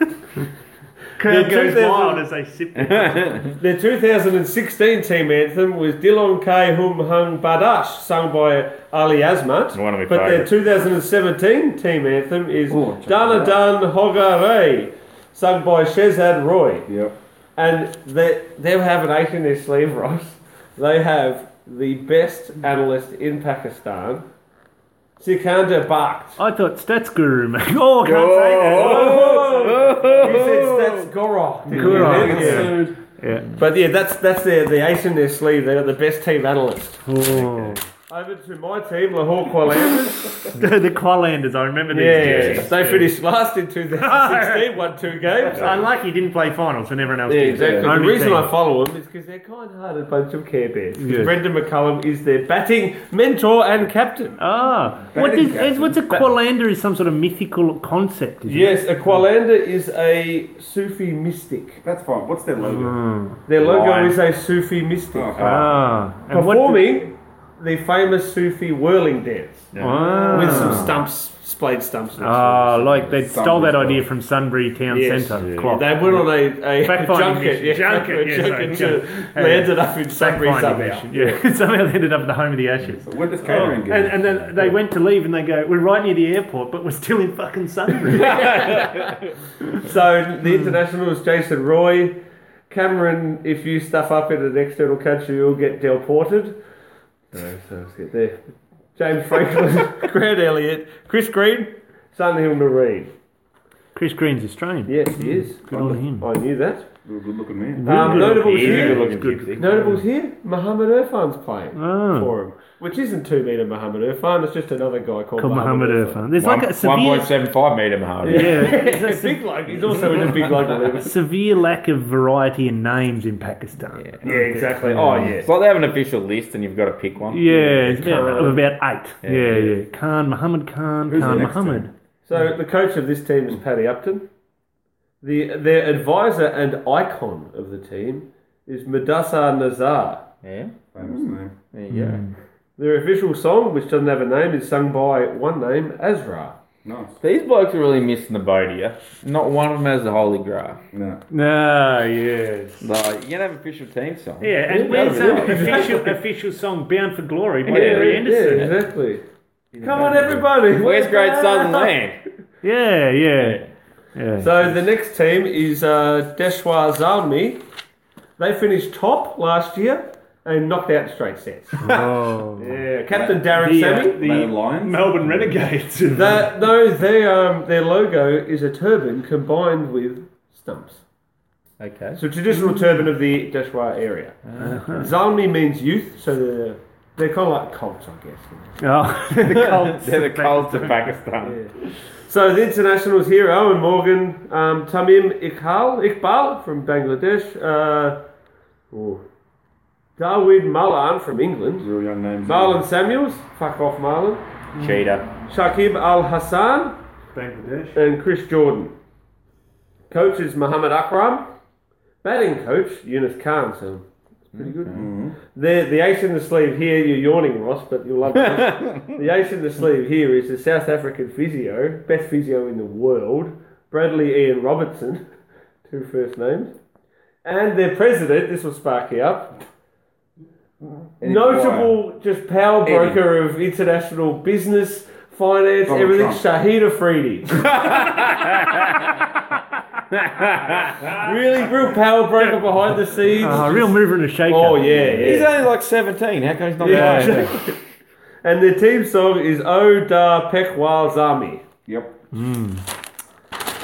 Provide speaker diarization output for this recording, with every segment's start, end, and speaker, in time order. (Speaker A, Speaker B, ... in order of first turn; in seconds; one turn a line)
Speaker A: 1.2-3.5
Speaker B: 1.2-2.2
Speaker C: 2.8-3.5
Speaker B: 3.6-16.9
Speaker C: 9.7-10.5
Speaker D: 12.7-13.6
Speaker D: 16.9-17.1
Speaker B: 17.6-24.2
Speaker B: 25.2-26.4
Speaker A: 26.4-29.5
Speaker C: 28.0-31.1
Speaker B: 28.6-32.8
Speaker A: 31.7-33.5
Speaker D: 31.7-33.0
Speaker C: 32.0-32.6
Speaker B: 33.5-37.0
Speaker A: 37.0-37.8
Speaker B: 38.1-40.5
Speaker A: 40.6-43.1
Speaker B: 41.9-45.9
Speaker C: 42.2-42.6
Speaker A: 44.0-44.7
Speaker A: 45.5-48.5
Speaker B: 47.3-54.3
Speaker D: 47.5-47.9
Speaker A: 51.0-51.3
Speaker A: 54.4-58.8
Speaker D: 55.1-56.0
Speaker B: 58.5-61.8
Speaker D: 61.8-63.0
Speaker A: 62.6-63.9
Speaker B: 63.5-65.4
Speaker D: 65.1-65.6
Speaker C: 65.3-65.8
Speaker A: 65.4-67.1
Speaker B: 66.3-73.2
Speaker C: 69.7-70.8
Speaker A: 69.8-70.9
Speaker D: 70.3-70.9
Speaker A: 72.2-88.8
Speaker D: 73.1-74.1
Speaker B: 74.9-81.4
Speaker C: 75.3-75.7
Speaker D: 83.0-84.5
Speaker B: 88.2-89.0
Speaker C: 88.2-89.0
Speaker B: 89.7-92.2
Speaker B: 92.7-96.6
Speaker B: 97.3-98.4
Speaker B: 99.0-103.1
Speaker A: 103.9-106.3
Speaker B: 104.9-106.9
Speaker D: 107.0-108.2
Speaker A: 107.8-110.0
Speaker B: 107.8-116.3
Speaker C: 108.1-109.7
Speaker A: 111.7-112.3
Speaker A: 115.4-117.3
Speaker C: 116.3-118.8
Speaker B: 118.2-121.1
Speaker A: 118.3-119.4
Speaker A: 120.9-125.3
Speaker C: 124.0-124.2
Speaker B: 124.2-125.5
Speaker C: 125.3-128.6
Speaker A: 127.3-131.9
Speaker B: 127.5-128.6
Speaker C: 129.2-129.7
Speaker D: 131.1-131.9
Speaker B: 132.2-134.2
Speaker B: 135.2-140.2
Speaker C: 140.4-140.7
Speaker D: 140.9-141.5
Speaker C: 141.7-142.2
Speaker A: 141.9-142.3
Speaker B: 142.8-146.6
Speaker D: 146.8-147.2
Speaker C: 147.2-150.8
Speaker D: 150.9-151.2
Speaker A: 151.3-152.8
Speaker C: 152.8-156.0
Speaker A: 154.4-158.8
Speaker B: 154.7-156.1
Speaker C: 157.6-158.7
Speaker B: 157.7-159.2
Speaker A: 159.8-160.3
Speaker B: 159.8-161.9
Speaker C: 160.7-162.2
Speaker A: 162.6-163.6
Speaker C: 163.4-163.7
Speaker A: 164.1-164.7
Speaker B: 164.4-167.6
Speaker B: 168.4-172.0
Speaker A: 171.8-172.8
Speaker B: 172.6-174.2
Speaker D: 173.1-173.4
Speaker A: 173.5-176.5
Speaker D: 174.2-175.5
Speaker B: 176.1-181.0
Speaker C: 181.8-182.2
Speaker B: 182.2-188.8
Speaker A: 182.5-183.1
Speaker A: 184.6-185.1
Speaker A: 188.8-191.1
Speaker C: 189.4-191.6
Speaker B: 191.4-198.2
Speaker B: 198.9-199.2
Speaker B: 200.2-201.9
Speaker D: 201.8-202.8
Speaker B: 202.4-204.4
Speaker C: 204.8-205.3
Speaker B: 205.4-207.0
Speaker A: 207.3-208.0
Speaker B: 207.9-208.9
Speaker B: 210.1-211.5
Speaker B: 212.2-225.2
Speaker C: 214.6-214.9
Speaker D: 214.9-215.3
Speaker C: 218.5-219.1
Speaker B: 225.9-226.7
Speaker B: 227.4-229.6
Speaker B: 231.0-237.7
Speaker D: 231.2-232.0
Speaker D: 232.8-233.2
Speaker D: 235.9-236.4
Speaker C: 237.6-239.2
Speaker C: 240.1-241.2
Speaker B: 241.1-243.9
Speaker A: 243.3-245.2
Speaker B: 244.4-245.5
Speaker C: 245.2-247.6
Speaker B: 246.8-247.8
Speaker A: 246.8-247.6
Speaker B: 248.4-251.6
Speaker D: 251.8-252.2
Speaker A: 252.3-252.8